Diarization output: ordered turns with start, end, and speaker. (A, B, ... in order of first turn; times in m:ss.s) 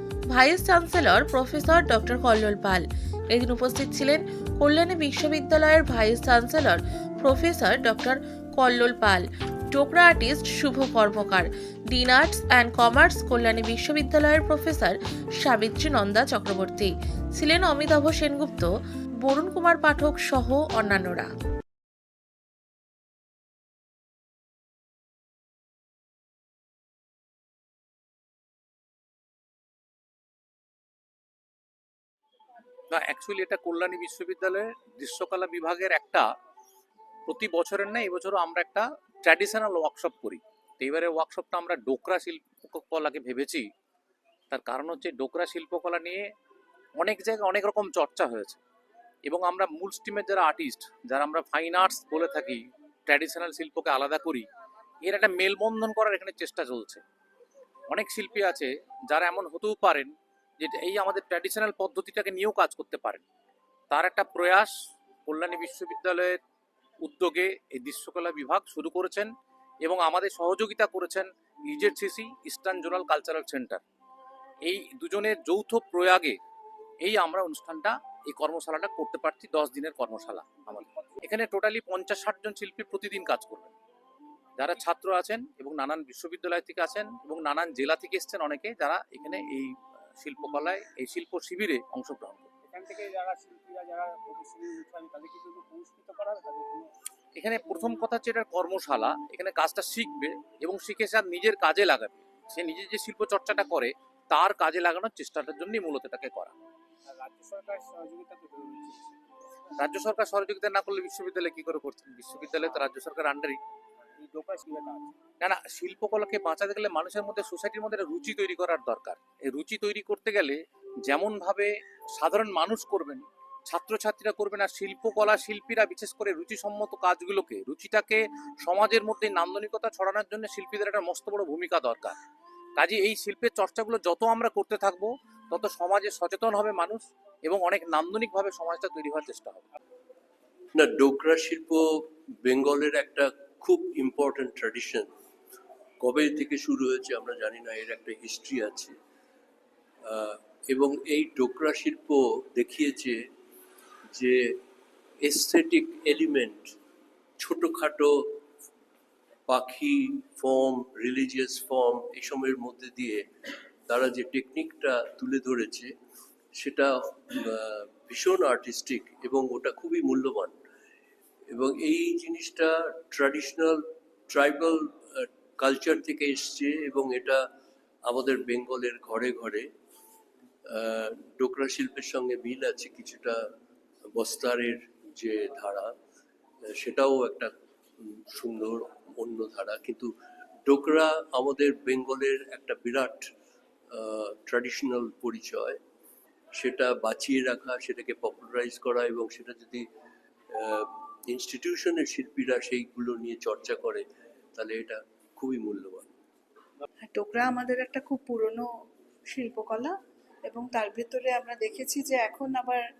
0:00.3-0:18.7 A
0:19.2-0:21.3 A
0:32.9-0:36.3 B
0:37.2-0:43.7 B
0:44.5-0:46.2 B
0:47.0-0:48.6 B
0:49.2-0:54.4 B
0:55.0-0:57.0 B
0:57.9-1:03.2 B
1:03.9-1:04.7 B
1:05.2-1:06.4 B
1:07.0-1:13.8 B
1:14.6-1:16.4 B
1:17.0-1:23.7 B
1:24.6-1:32.5 B
1:32.6-1:36.9 C
1:37.3-1:46.5 B
1:47.1-1:49.2 C
1:49.8-1:53.6 B
1:54.2-1:55.2 C
1:55.4-2:12.2 B
2:12.8-2:19.6 B
2:20.7-2:25.1 D
2:26.0-2:28.9 D
2:30.1-2:33.2 D
2:34.1-2:34.6 D
2:35.2-2:36.8 D
2:37.4-2:38.3 D
2:39.5-2:43.2 D
2:43.9-2:45.9 D
2:46.6-2:50.5 D
2:51.5-2:57.4 D
2:58.0-2:59.7 D
3:00.7-3:03.4 D
3:04.1-3:05.9 D
3:06.7-3:10.1 D
3:10.6-3:13.3 D
3:13.9-3:15.8 D
3:16.6-3:19.8 D
3:20.5-3:26.1 D
3:27.1-3:28.7 E
3:29.3-3:29.9 E
3:30.4-3:32.8 E